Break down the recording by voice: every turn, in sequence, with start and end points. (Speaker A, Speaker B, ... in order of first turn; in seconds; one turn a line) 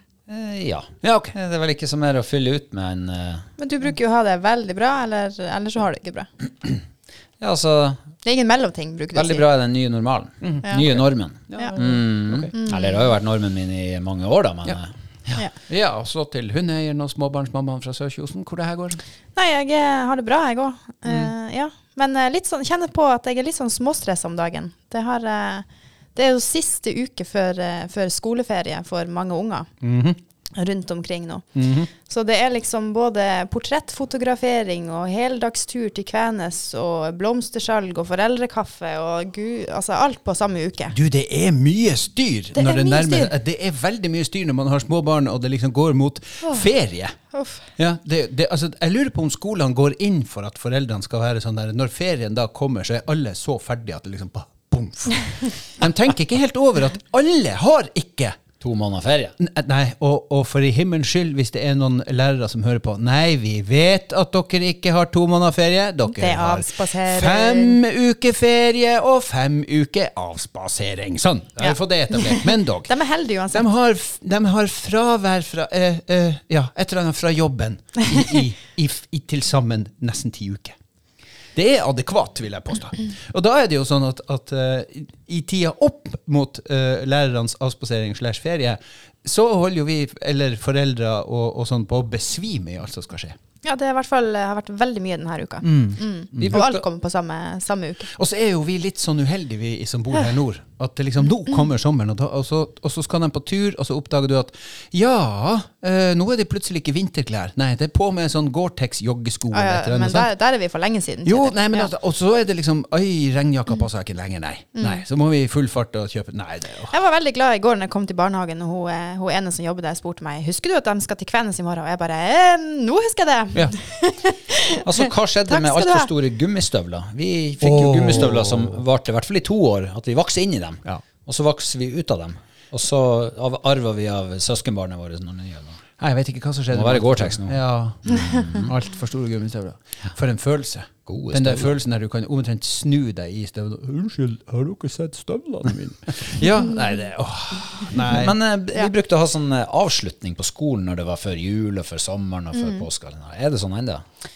Speaker A: 0.3-3.5
Speaker B: 1.0-1.4
Speaker C: 3.6-6.3
Speaker A: 7.4-8.0
Speaker C: 8.2-9.5
Speaker A: 9.2-15.4
Speaker B: 10.4-12.5
Speaker C: 12.5-13.0
Speaker B: 15.6-19.0
Speaker C: 19.4-29.7
Speaker B: 29.8-30.2
Speaker C: 30.6-31.4
Speaker B: 31.6-31.9
Speaker C: 32.0-41.0
Speaker B: 40.9-47.1
Speaker C: 42.5-43.3
Speaker C: 47.3-47.6
Speaker B: 47.8-58.4
Speaker A: 58.6-59.3
Speaker B: 59.4-72.9
Speaker C: 66.1-67.8
Speaker C: 71.6-73.7
Speaker B: 73.5-80.8
Speaker B: 81.5-93.4
Speaker C: 93.6-98.1
Speaker B: 95.6-96.7
Speaker A: 96.4-96.8
Speaker B: 98.1-110.3
Speaker C: 109.5-111.9
Speaker B: 111.2-116.9
Speaker C: 114.8-115.0
Speaker C: 116.9-126.1
Speaker A: 124.8-135.8
Speaker B: 127.6-128.8
Speaker B: 136.0-148.4
Speaker A: 136.7-137.6
Speaker A: 138.1-138.7
Speaker A: 141.1-141.8
Speaker A: 148.0-154.0
Speaker C: 152.5-152.8